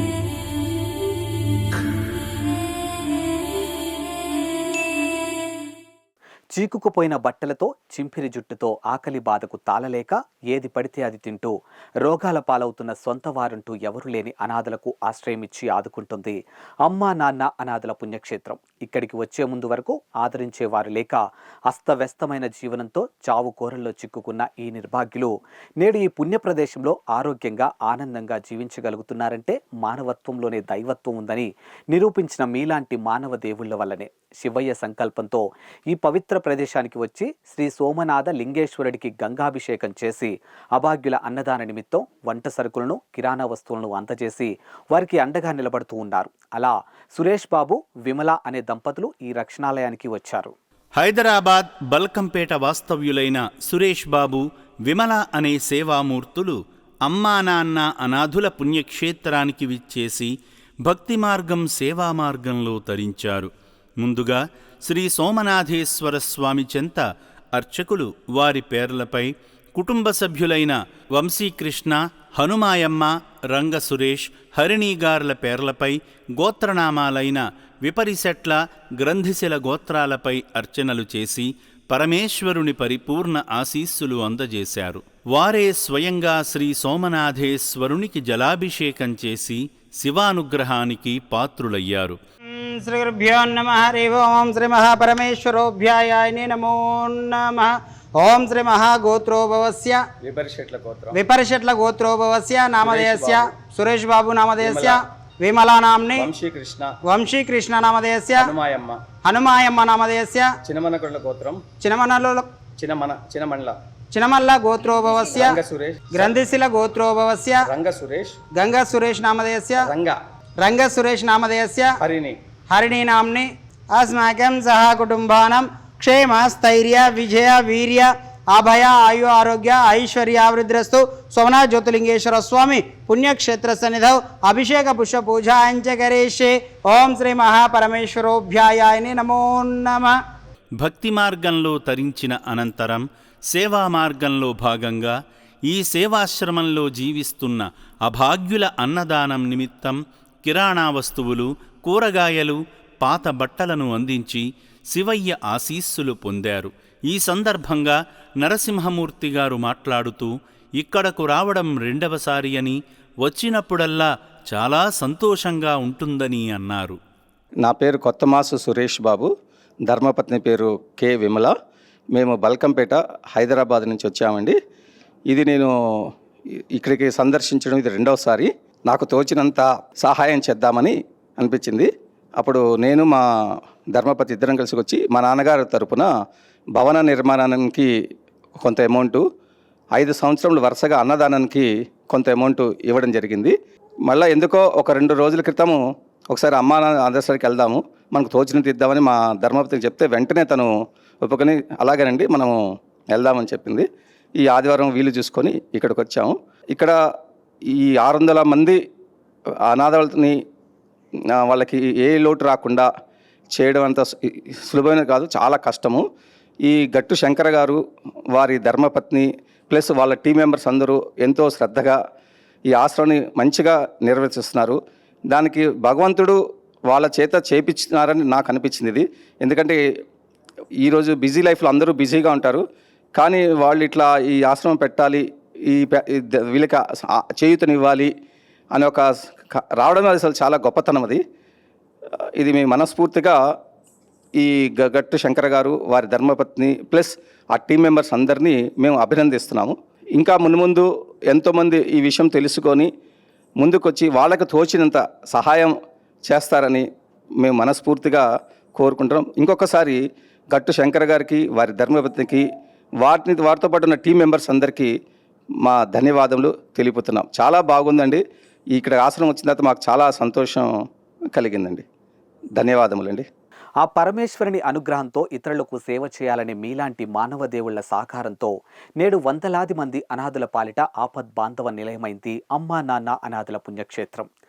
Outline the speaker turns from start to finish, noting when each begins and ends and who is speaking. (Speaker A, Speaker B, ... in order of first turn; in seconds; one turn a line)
Speaker A: 6.5-50.5
Speaker B: 51.0-60.3
Speaker B: 60.9-63.5
Speaker B: 64.0-67.0
Speaker B: 67.5-92.2
Speaker C: 92.5-100.0
Speaker D: 100.2-101.2
Speaker C: 101.1-106.3
Speaker D: 102.8-103.4
Speaker D: 104.6-105.0
Speaker D: 106.2-106.9
Speaker C: 107.1-108.5
Speaker D: 108.4-109.0
Speaker C: 109.2-110.5
Speaker D: 110.7-111.6
Speaker C: 111.8-112.5
Speaker D: 112.8-113.7
Speaker C: 114.1-115.6
Speaker D: 115.3-116.3
Speaker C: 116.1-117.7
Speaker D: 117.7-118.3
Speaker C: 118.5-119.9
Speaker D: 119.8-120.2
Speaker C: 120.6-122.0
Speaker D: 122.0-122.3
Speaker C: 122.7-140.1
Speaker B: 140.8-145.1
Speaker B: 145.7-167.0
Speaker D: 167.6-169.3
Speaker D: 169.9-171.5
Speaker D: 172.1-174.6
Speaker D: 175.3-175.7
Speaker D: 176.7-183.2
Speaker D: 183.9-186.1
Speaker D: 186.8-187.9
Speaker D: 188.6-189.2
Speaker D: 189.9-193.5
Speaker D: 194.1-195.8
Speaker D: 196.3-200.7
Speaker D: 201.2-202.6
Speaker D: 203.1-203.9
Speaker D: 204.4-206.9
Speaker D: 207.7-208.8
Speaker D: 209.7-210.3
Speaker D: 211.3-212.9
Speaker D: 213.5-216.0
Speaker D: 216.7-217.8
Speaker D: 218.3-222.0
Speaker D: 222.7-224.8
Speaker D: 225.3-229.8
Speaker D: 230.8-232.6
Speaker D: 233.2-238.1
Speaker D: 238.7-241.2
Speaker D: 242.4-243.4
Speaker D: 244.4-252.9
Speaker D: 253.6-255.7
Speaker D: 256.3-256.9
Speaker D: 257.4-258.2
Speaker D: 258.8-260.0
Speaker D: 260.5-262.4
Speaker D: 263.0-264.9
Speaker D: 265.6-268.2
Speaker D: 268.7-270.7
Speaker D: 271.3-271.8
Speaker D: 272.6-273.2
Speaker A: 273.8-284.3